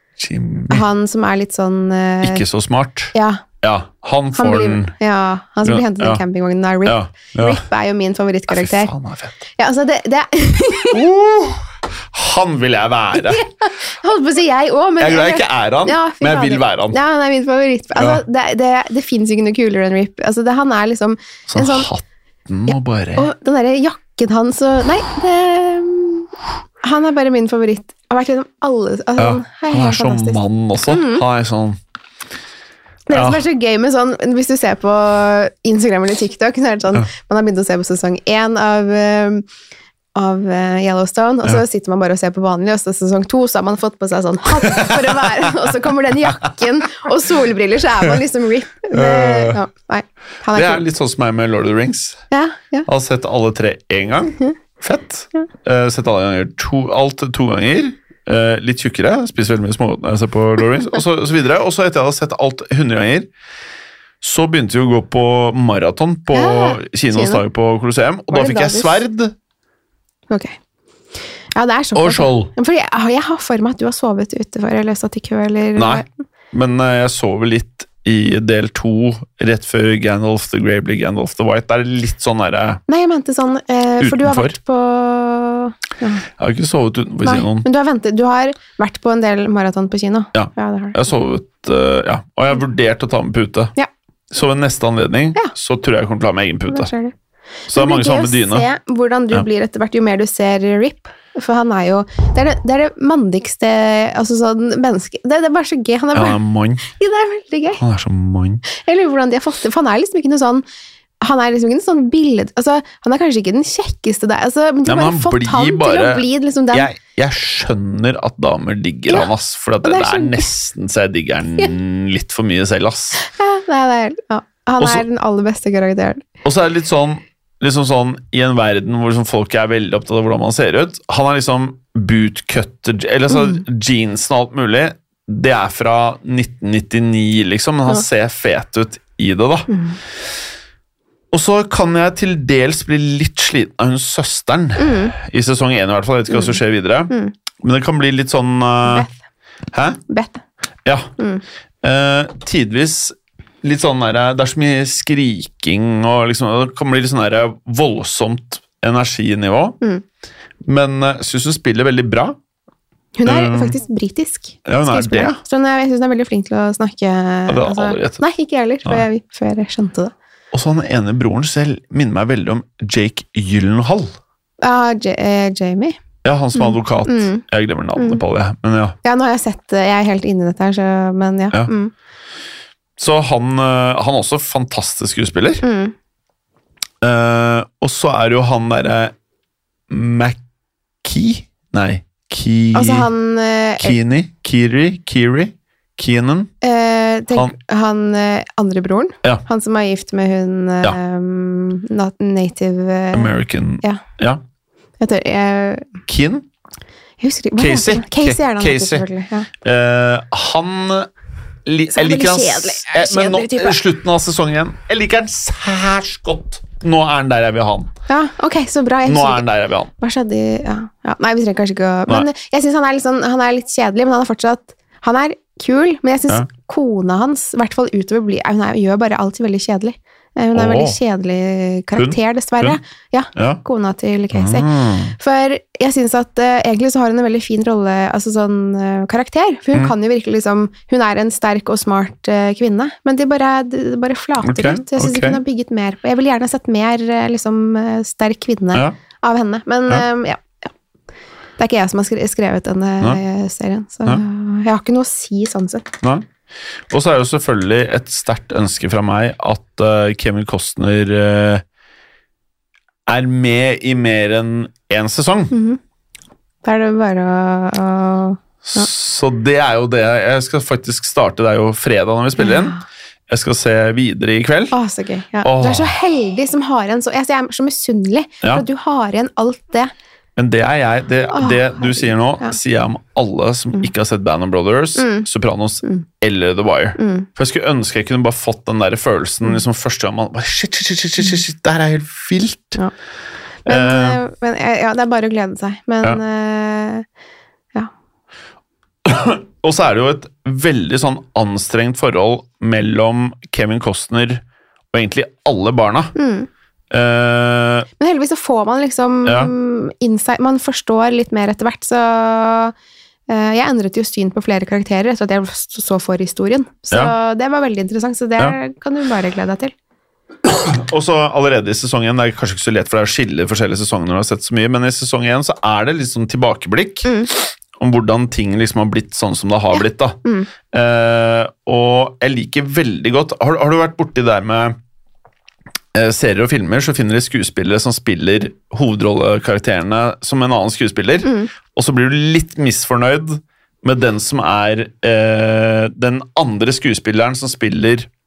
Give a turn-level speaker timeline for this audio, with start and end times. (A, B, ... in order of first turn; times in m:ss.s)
0:00.2-0:00.8 A
0:00.7-0:02.4 B
0:02.2-0:04.9 A
0:03.1-0:03.4 B
0:04.4-0:08.9 B
0:05.6-0:06.2 A
0:06.8-0:07.6 A
0:08.5-0:09.4 A
0:09.6-0:11.0 B
0:10.9-0:13.4 A
0:13.2-0:21.9 B
0:15.0-0:17.0 A
0:18.0-0:18.2 A
0:21.5-0:23.3 A
0:22.7-0:26.3 B
0:26.8-0:31.2 B
0:29.2-0:31.8 A
0:33.1-0:39.4 B
0:33.1-0:33.4 A
0:40.2-0:50.8 B
0:44.6-0:45.7 A
0:48.9-0:49.6 A
0:50.5-0:52.2 A
0:52.3-0:52.9 B
0:52.9-1:03.3 A
1:04.2-1:09.4 A
1:06.3-1:07.4 B
1:08.3-1:09.0 B
1:10.3-1:10.6 B
1:11.6-1:16.1 B
1:12.0-1:12.5 A
1:15.8-1:22.8 A
1:22.9-1:26.3 B
1:24.0-1:24.6 A
1:26.4-1:27.7 A
1:27.2-1:31.0 B
1:30.3-1:33.7 A
1:34.3-1:36.9 A
1:36.7-1:37.2 B
1:37.7-1:38.7 A
1:37.7-1:47.8 B
1:46.1-1:46.9 A
1:47.8-1:48.6 A
1:48.7-1:50.6 B
1:51.2-1:56.9 B
1:54.9-2:03.2 A
1:59.8-2:00.5 B
2:03.2-2:06.3 B
2:06.4-2:19.7 A
2:19.7-2:20.0 B
2:21.3-2:29.1 A
2:24.8-2:25.2 B
2:26.3-2:26.6 B
2:28.8-2:29.2 B
2:29.7-2:30.0 A
2:30.1-2:30.4 B
2:30.8-2:31.1 A
2:31.2-2:31.4 B
2:31.8-2:39.8 A
2:40.6-2:42.4 A
2:43.2-2:50.1 B
2:43.2-2:43.8 A
2:44.7-2:45.4 A
2:47.5-2:48.2 A
2:50.5-2:54.1 A
2:54.6-2:56.0 B
2:56.2-2:59.0 A
2:56.5-2:57.4 B
2:58.0-2:58.2 B
2:59.0-3:01.9 B
3:03.0-3:05.6 A
3:05.6-3:05.9 B
3:07.0-3:09.1 A
3:09.9-3:10.4 A
3:11.0-3:13.1 A
3:12.7-3:14.0 B
3:13.8-3:16.5 A
3:16.6-3:24.0 B
3:23.1-3:24.4 A
3:25.0-3:25.9 B
3:26.1-3:26.5 A
3:27.2-3:29.5 B
3:27.6-3:29.1 A
3:29.6-3:31.1 A
3:31.7-3:37.9 A
3:31.9-3:33.8 B
3:38.1-3:39.4 B
3:39.0-3:39.9 A
3:40.0-4:10.5 B
3:50.5-3:51.0 A
3:52.0-3:52.8 A
3:53.4-3:53.6 A
3:54.3-3:55.2 A
4:04.4-4:05.4 A
4:11.6-4:15.9 B
4:16.0-4:16.3 A
4:16.9-4:21.6 A
4:23.1-4:25.5 A
4:25.5-4:25.8 B
4:26.6-4:28.9 B
4:28.6-4:32.8 A
4:32.4-4:32.8 B
4:33.3-4:34.8 A
4:34.7-4:39.9 B
4:35.4-4:35.9 A
4:40.4-4:52.8 A
4:41.3-4:42.6 B
4:45.0-4:45.3 B
4:47.0-4:47.3 B
4:53.6-4:57.0 B
4:53.7-4:54.2 A
4:59.0-5:06.1 A
5:06.2-5:06.5 B
5:06.9-5:07.9 A
5:08.0-5:12.8 B
5:09.2-5:09.5 A
5:13.3-5:19.7 B
5:20.4-5:30.2 A
5:27.0-5:27.3 B
5:29.7-5:30.5 B
5:30.7-5:34.8 A
5:35.9-5:48.1 A
5:41.2-5:41.5 B